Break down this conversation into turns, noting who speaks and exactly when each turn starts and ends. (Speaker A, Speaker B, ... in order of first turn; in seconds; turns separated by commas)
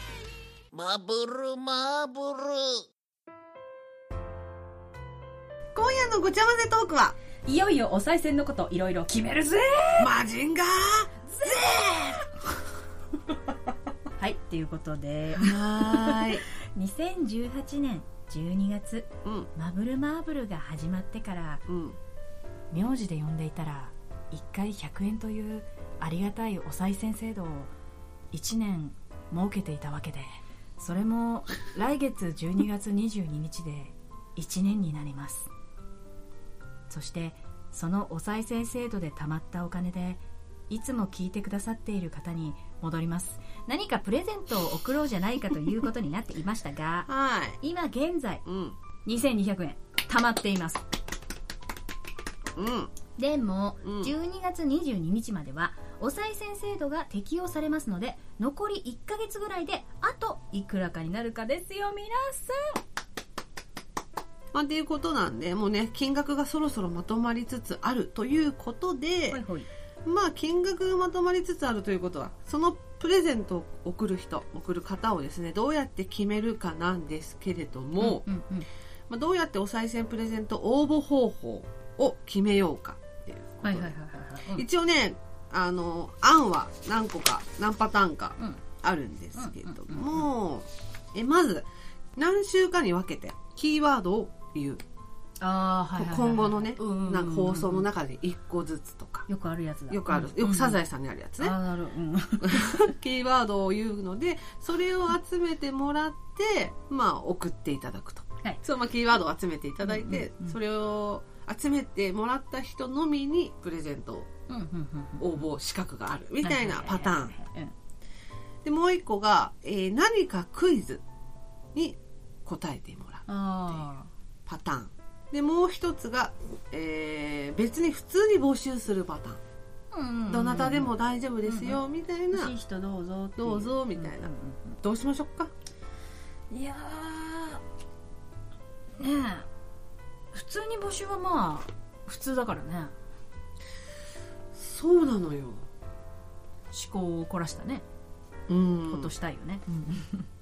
Speaker A: 0.7-2.9, Speaker B: 5.7-7.2, Speaker C: 7.5-10.1, Speaker B: 10.0-12.3, Speaker C: 11.3-11.7, Speaker C: 14.2-21.6, Speaker B: 15.4-16.4, Speaker B: 19.2-19.5, Speaker B: 21.7-22.0, Speaker C: 22.7-27.7, Speaker C: 28.3-35.5, Speaker C: 36.9-47.1, Speaker B: 47.1-47.6, Speaker C: 47.6-48.4, Speaker B: 48.5-48.8, Speaker C: 49.0-50.8, Speaker B: 52.6-52.9, Speaker C: 53.2-62.8, Speaker B: 53.8-54.1, Speaker B: 64.5-69.4, Speaker C: 69.3-69.7, Speaker B: 70.0-78.2, Speaker C: 78.0-78.7, Speaker B: 79.1-84.0, Speaker C: 83.6-84.7, Speaker B: 84.5-94.8, Speaker C: 89.4-90.2, Speaker C: 95.4-97.9, Speaker B: 96.0-99.3, Speaker C: 99.3-100.8, Speaker B: 99.9-101.6, Speaker C: 101.4-102.9, Speaker B: 102.4-114.3, Speaker C: 109.8-110.6, Speaker C: 114.5-115.4, Speaker B: 115.2-117.3, Speaker C: 116.4-117.7, Speaker B: 118.6-121.0, Speaker B: 121.7-123.9, Speaker C: 123.3-124.1, Speaker B: 124.5-129.4, Speaker C: 129.9-130.9, Speaker B: 130.3-132.5, Speaker C: 131.5-131.8, Speaker C: 132.3-134.8, Speaker B: 133.4-135.5, Speaker C: 136.5-137.6, Speaker C: 139.0-139.5, Speaker C: 140.3-142.9, Speaker B: 144.5-145.7, Speaker C: 146.7-147.8, Speaker B: 148.5-149.1, Speaker C: 148.9-150.3